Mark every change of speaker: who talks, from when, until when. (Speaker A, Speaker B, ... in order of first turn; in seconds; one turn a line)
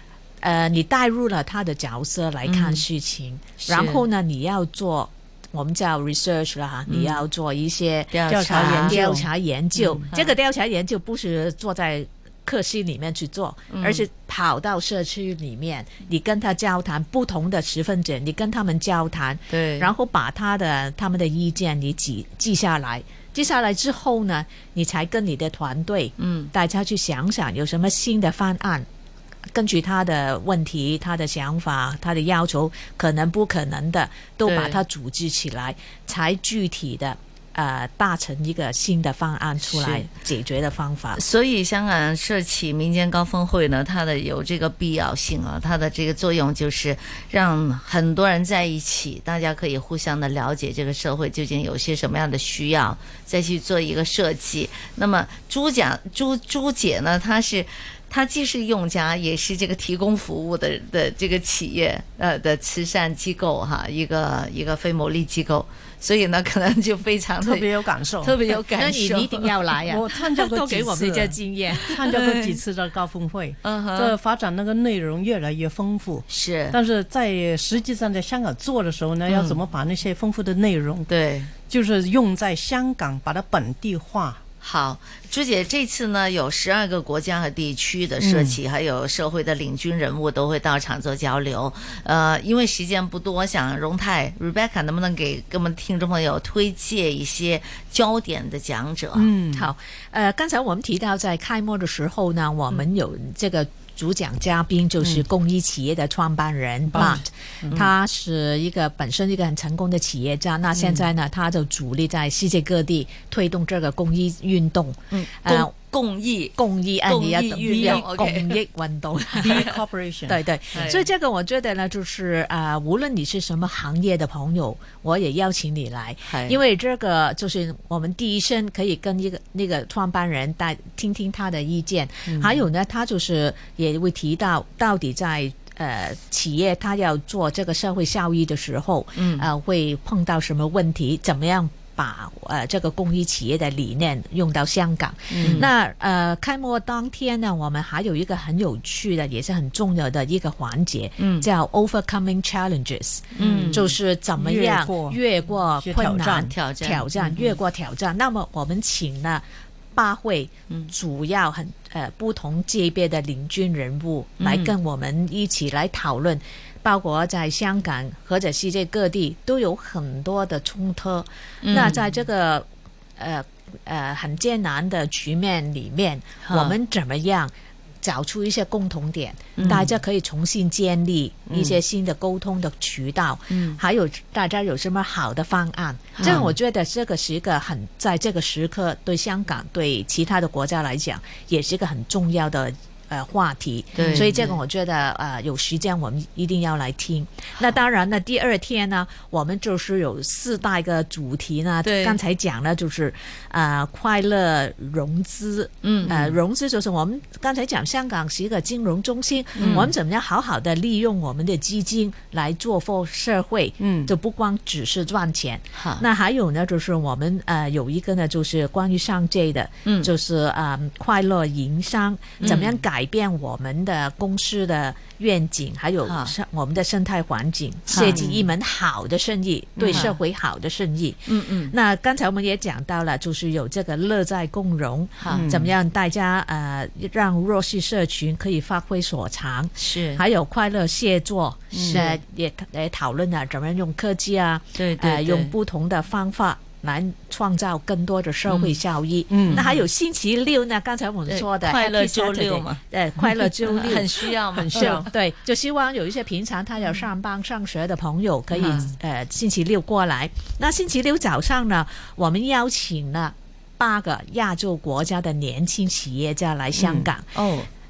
Speaker A: 0.4-28.9
Speaker B: 2.4-2.8
Speaker B: 3.6-4.0
Speaker B: 6.9-7.2
Speaker B: 8.1-9.0
Speaker C: 8.3-9.3
Speaker B: 9.8-10.3
Speaker B: 13.7-14.0
Speaker B: 19.5-19.9
Speaker B: 26.2-26.5
Speaker A: 29.5-41.2
Speaker B: 34.5-34.8
Speaker B: 39.7-40.0
Speaker B: 41.1-67.7
Speaker C: 67.4-68.3
Speaker B: 68.2-69.6
Speaker A: 68.5-72.1
Speaker C: 69.8-71.3
Speaker B: 71.8-72.6
Speaker C: 71.9-81.1
Speaker B: 73.6-74.2
Speaker B: 76.3-76.8
Speaker B: 79.3-79.6
Speaker B: 81.1-81.5
Speaker C: 81.7-84.4
Speaker B: 84.6-99.3
Speaker C: 88.2-88.6
Speaker C: 99.1-99.7
Speaker A: 99.5-115.7
Speaker C: 106.9-107.9
Speaker C: 110.7-111.1
Speaker B: 115.1-118.6
Speaker A: 116.5-119.7
Speaker C: 117.7-118.1
Speaker C: 119.3-120.4
Speaker B: 119.4-119.8
Speaker A: 120.3-172.7
Speaker B: 120.7-121.1
Speaker B: 126.2-126.6
Speaker B: 139.2-139.5
Speaker C: 145.3-145.7
Speaker B: 145.4-145.7
Speaker B: 151.2-151.4
Speaker C: 153.3-155.2
Speaker B: 153.3-153.9
Speaker C: 155.8-156.5
Speaker B: 156.5-157.6
Speaker B: 164.4-164.7
Speaker B: 171.6-172.0
Speaker A: 173.2-267.3
Speaker B: 176.4-176.7
Speaker B: 179.6-179.9
Speaker B: 183.5-183.8
Speaker B: 186.2-186.5
Speaker C: 186.2-186.5
Speaker B: 193.9-194.6
Speaker C: 194.0-194.2
Speaker B: 201.8-202.2
Speaker B: 205.8-206.3
Speaker C: 209.5-209.9
Speaker B: 209.6-209.9
Speaker C: 213.8-214.1
Speaker B: 215.8-216.0
Speaker B: 222.4-222.8
Speaker B: 226.0-226.3
Speaker B: 227.9-228.4
Speaker C: 228.0-228.4
Speaker B: 229.8-230.1
Speaker B: 231.3-231.7
Speaker B: 235.2-235.5
Speaker C: 235.3-235.7
Speaker B: 239.8-240.2
Speaker C: 241.7-242.0
Speaker B: 241.7-242.2
Speaker B: 244.7-245.5
Speaker B: 248.5-248.8
Speaker C: 249.3-249.7
Speaker B: 249.5-249.8
Speaker B: 251.3-255.1
Speaker C: 254.5-255.1
Speaker B: 258.5-258.9
Speaker C: 266.8-267.1
Speaker B: 267.3-267.7